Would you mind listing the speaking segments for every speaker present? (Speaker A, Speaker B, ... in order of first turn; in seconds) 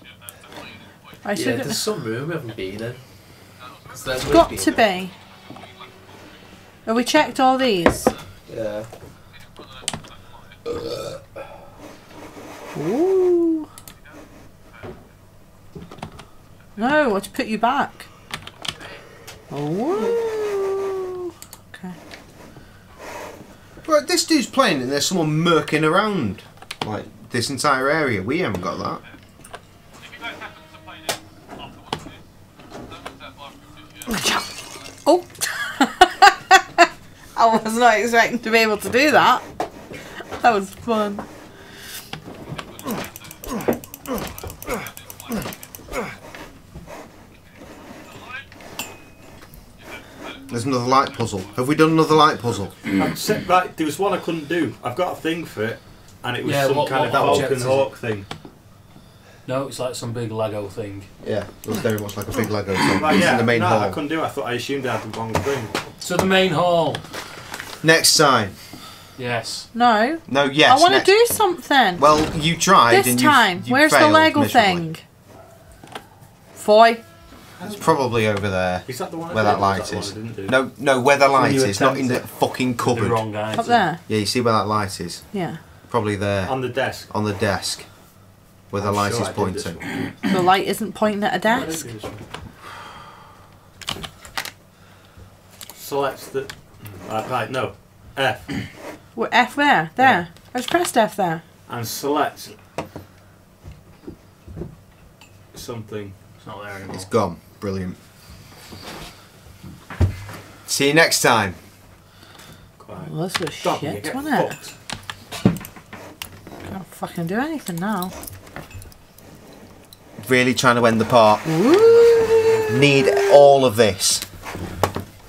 Speaker A: 1.2-1.8, 4.2-5.1, 6.8-8.1, 12.7-13.7, 16.8-18.1, 19.5-21.2, 34.1-34.5, 35.0-39.4, 40.3-41.2, 69.7-72.0, 72.9-75.0, 76.5-77.0, 83.5-84.0, 85.3-85.6, 90.3-91.9, 99.1-101.4, 113.0-114.5, 116.7-118.1, 121.4-122.3
Speaker B: 1.3-3.0, 3.8-4.8, 8.5-8.9, 10.7-11.2
Speaker C: 23.8-29.0, 50.5-52.8, 57.1-57.5, 61.2-64.0, 67.8-68.5, 70.3-71.1, 72.0-74.8, 77.6-83.3, 84.0-85.3, 85.9-87.9, 88.7-89.8, 106.9-108.0, 110.7-111.5, 120.2-121.5, 122.7-124.2
Speaker D: 52.9-58.2, 62.9-65.7, 77.6-78.0, 78.8-80.6, 81.3-82.2, 86.4-87.1, 88.7-90.3, 91.5-92.2, 95.7-98.5, 101.7-102.5, 105.5-106.1, 112.8-114.7, 121.8-122.7
Speaker E: 56.4-57.9, 59.4-61.1, 66.0-67.0, 69.2-69.7, 82.8-83.9, 106.4-107.1